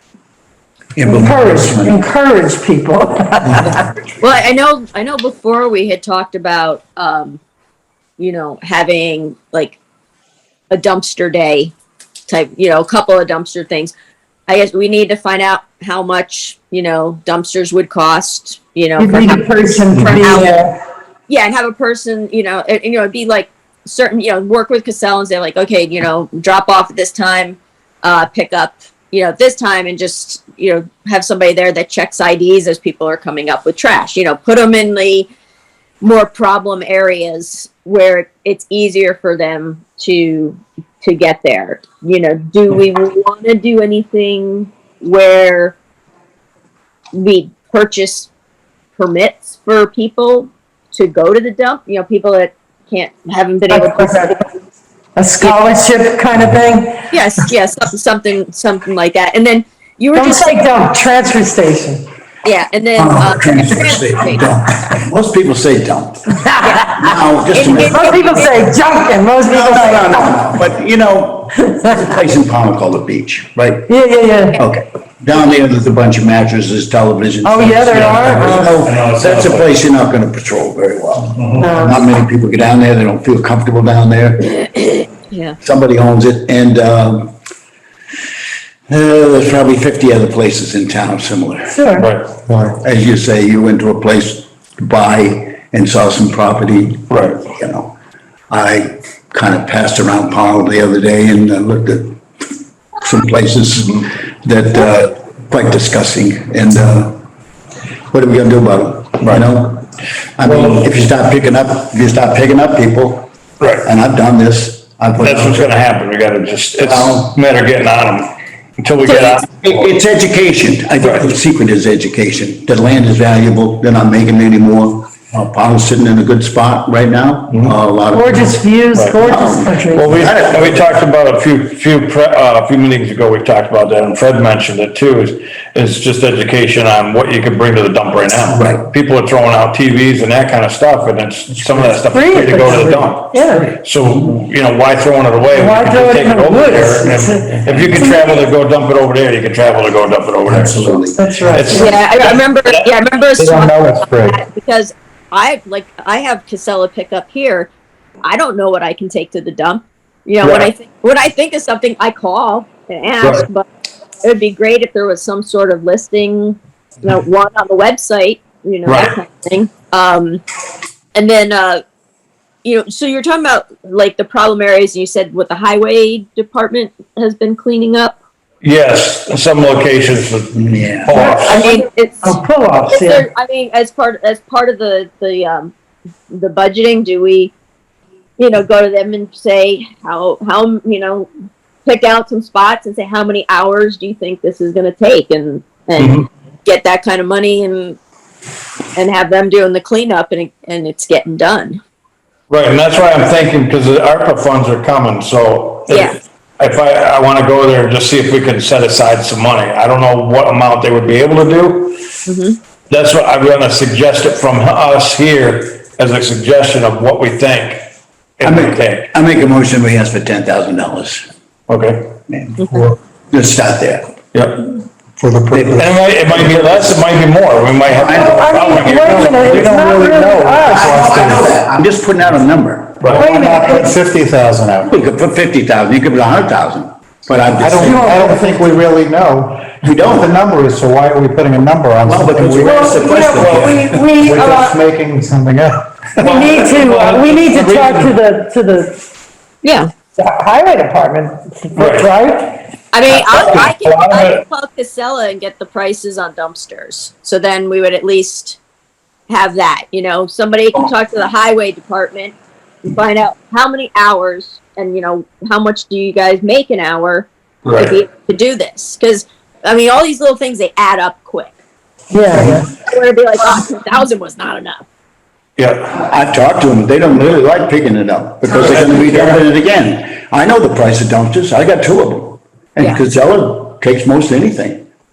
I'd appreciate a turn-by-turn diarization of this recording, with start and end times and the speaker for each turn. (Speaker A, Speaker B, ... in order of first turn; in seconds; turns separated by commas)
Speaker A: 0.9-2.0, Speaker B: 1.0-3.9, Speaker C: 4.2-7.4, Speaker C: 8.2-9.8, Speaker C: 10.7-11.7, Speaker C: 12.3-13.9, Speaker C: 14.5-20.5, Speaker B: 18.9-20.8, Speaker C: 21.3-35.3, Speaker C: 36.0-45.8, Speaker C: 47.1-48.3, Speaker C: 49.0-54.5, Speaker B: 53.7-54.4, Speaker B: 55.1-57.1, Speaker C: 57.1-60.6, Speaker B: 60.1-62.0, Speaker C: 62.4-64.6, Speaker A: 63.0-68.1, Speaker B: 66.4-67.1, Speaker C: 66.6-68.7, Speaker B: 67.7-70.6, Speaker A: 69.5-73.9, Speaker B: 71.7-72.0, Speaker B: 73.9-74.6, Speaker A: 74.5-84.6, Speaker B: 77.4-78.9, Speaker D: 78.8-79.7, Speaker B: 81.6-82.0, Speaker C: 85.3-85.6, Speaker A: 85.6-87.3, Speaker A: 88.9-91.8, Speaker B: 91.7-92.1, Speaker D: 92.0-92.3, Speaker A: 92.6-97.9, Speaker D: 97.1-97.4, Speaker A: 98.5-102.2, Speaker A: 103.0-107.2, Speaker A: 108.1-113.3, Speaker D: 110.4-110.7, Speaker D: 113.6-113.9, Speaker A: 113.8-115.7, Speaker D: 115.2-119.9, Speaker A: 116.8-117.4, Speaker C: 119.0-119.3, Speaker A: 119.5-128.6, Speaker B: 128.1-130.2, Speaker A: 129.2-131.0, Speaker D: 129.9-150.9, Speaker A: 138.5-138.8, Speaker B: 142.1-143.8, Speaker B: 145.5-148.5, Speaker A: 150.4-151.8, Speaker B: 151.1-152.0, Speaker D: 151.5-152.9, Speaker C: 151.7-157.7, Speaker E: 153.4-154.4, Speaker C: 158.2-163.7, Speaker D: 160.4-160.7, Speaker D: 163.2-163.4, Speaker C: 164.2-170.4, Speaker D: 168.8-169.1, Speaker C: 171.1-171.8, Speaker C: 172.6-178.2, Speaker D: 178.6-181.7, Speaker A: 180.5-181.1, Speaker B: 181.1-183.2, Speaker C: 181.4-185.7, Speaker C: 186.3-187.5, Speaker C: 188.4-191.3, Speaker C: 191.8-198.0, Speaker D: 195.9-196.2, Speaker C: 198.9-201.8, Speaker D: 202.5-212.0, Speaker C: 205.9-206.2, Speaker C: 212.2-212.6, Speaker D: 212.9-217.8, Speaker D: 218.4-219.1, Speaker A: 218.4-221.3, Speaker D: 221.7-222.1, Speaker A: 222.3-224.2, Speaker C: 222.6-222.9, Speaker D: 224.3-224.7, Speaker E: 225.2-225.8, Speaker A: 225.5-227.0, Speaker D: 225.8-229.6, Speaker A: 227.9-229.4, Speaker B: 228.1-231.2, Speaker E: 229.0-231.6, Speaker A: 230.8-233.2, Speaker D: 233.0-233.2, Speaker E: 233.0-234.9, Speaker B: 233.1-234.0, Speaker A: 234.9-238.1, Speaker E: 237.6-243.7, Speaker B: 237.8-238.7, Speaker A: 239.8-240.3, Speaker A: 242.0-244.0, Speaker B: 242.6-244.8, Speaker E: 244.2-246.3, Speaker B: 246.2-249.1, Speaker D: 246.2-248.1, Speaker C: 249.6-249.9, Speaker B: 250.1-252.7, Speaker D: 251.7-252.1, Speaker C: 252.9-258.6, Speaker D: 253.1-254.4, Speaker C: 259.3-271.5, Speaker D: 267.6-268.0, Speaker B: 272.1-272.7, Speaker C: 272.4-274.8, Speaker D: 275.6-276.1, Speaker A: 275.9-284.8, Speaker D: 278.5-279.4